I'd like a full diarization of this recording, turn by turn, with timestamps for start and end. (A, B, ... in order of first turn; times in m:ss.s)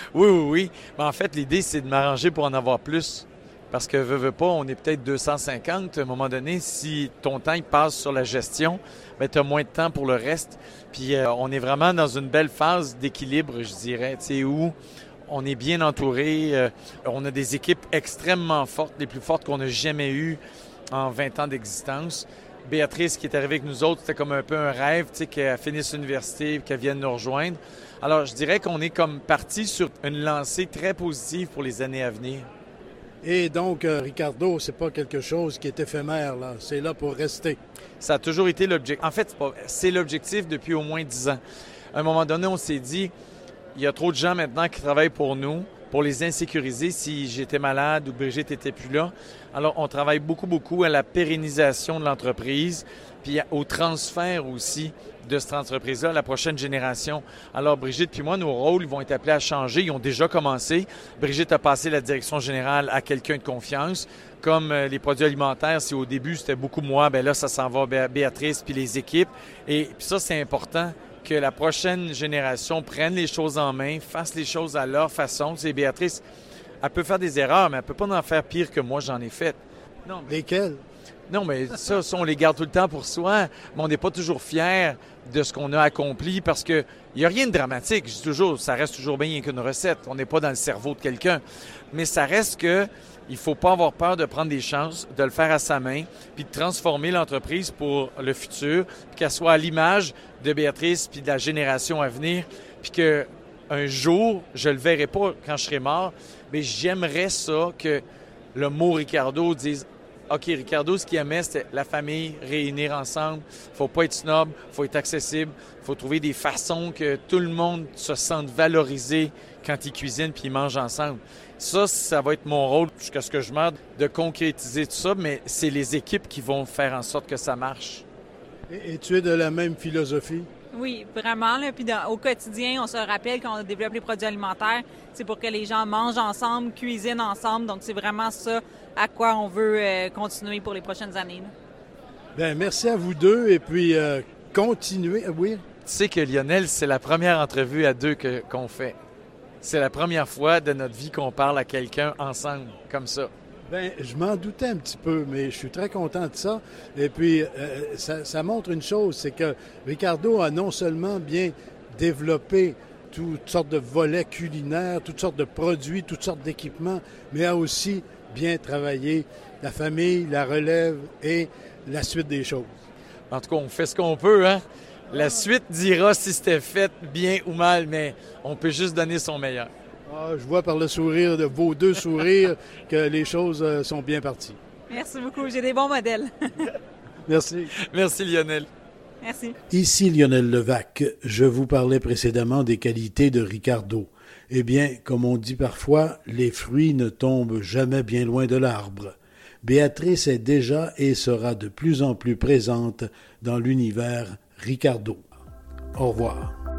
0:00.1-0:14.7 A
0:15.3-0:20.4 A
0:20.9-0:32.5 A
0:33.2-0:37.6 B
0:38.0-0:41.4 A
0:41.9-0:43.1 A
0:43.8-1:16.2 A
1:16.8-1:20.3 A
1:20.3-1:20.8 B
1:21.3-1:48.0 A
1:48.5-2:08.0 A
2:08.7-2:10.5 B
2:10.7-2:21.5 C
2:22.4-2:25.6 B
2:25.8-2:29.0 A
2:29.6-2:33.3 A
2:33.7-2:52.7 B
2:53.3-2:59.7 A
3:00.1-3:04.6 B
3:04.9-3:06.7 C
3:07.3-3:07.7 B
3:07.7-3:08.7 A
3:09.2-3:09.6 C
3:09.7-3:25.3 B
3:26.0-3:26.5 B